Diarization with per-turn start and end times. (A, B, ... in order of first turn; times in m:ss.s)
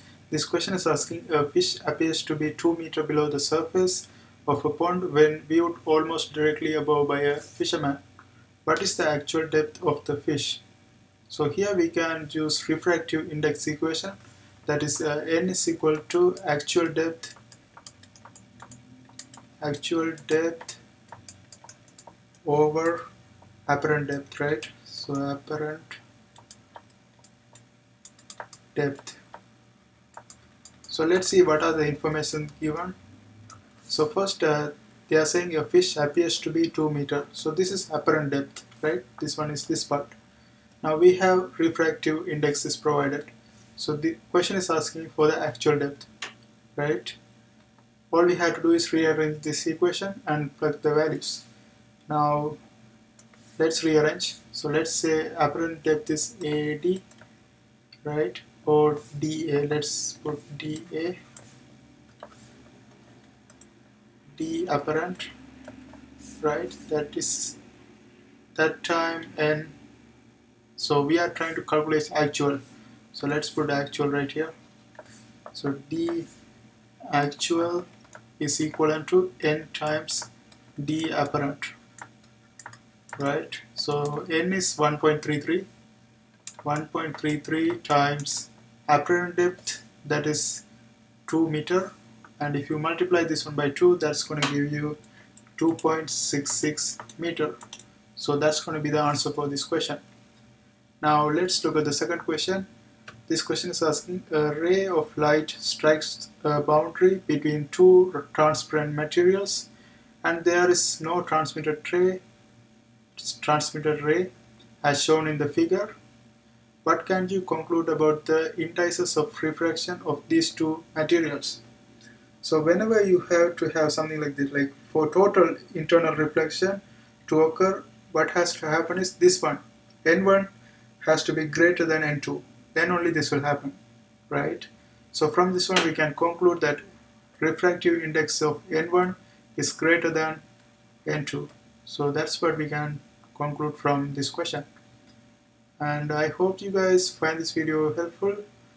0:00.3-0:08.0 A
0:08.6-0:10.6 A
0:11.3-0:17.4 A
0:19.6-0:20.8 A
0:22.4-0:23.0 A
0:23.6-0:26.0 A
0:28.7-0:29.2 A
0:30.9-0:33.0 A
0:33.9-0:40.1 A
0:40.8-0:46.1 A
0:46.8-0:47.2 A
0:48.1-0:51.4 A
0:52.1-0:52.6 A
0:53.6-0:57.0 A
0:58.0-1:01.2 A
1:04.3-1:05.3 A
1:06.4-1:07.6 A
1:08.5-1:09.7 A
1:10.8-1:12.6 A
1:13.1-1:14.5 A
1:15.5-1:16.3 A
1:17.1-1:17.9 A
1:18.4-1:21.7 A
1:23.2-1:25.7 A
1:26.6-1:30.6 A
1:31.3-1:35.0 A
1:35.6-1:37.5 A
1:38.2-1:40.0 A
1:41.0-1:42.7 A
1:43.3-1:49.7 A
1:50.2-1:52.2 A
1:53.2-1:54.3 A
1:54.8-1:55.9 A
1:56.8-2:01.6 A
2:02.4-2:10.5 A
2:11.0-2:13.8 A
2:14.3-2:16.8 A
2:17.4-2:20.4 A
2:21.0-2:24.7 A
2:25.8-2:28.4 A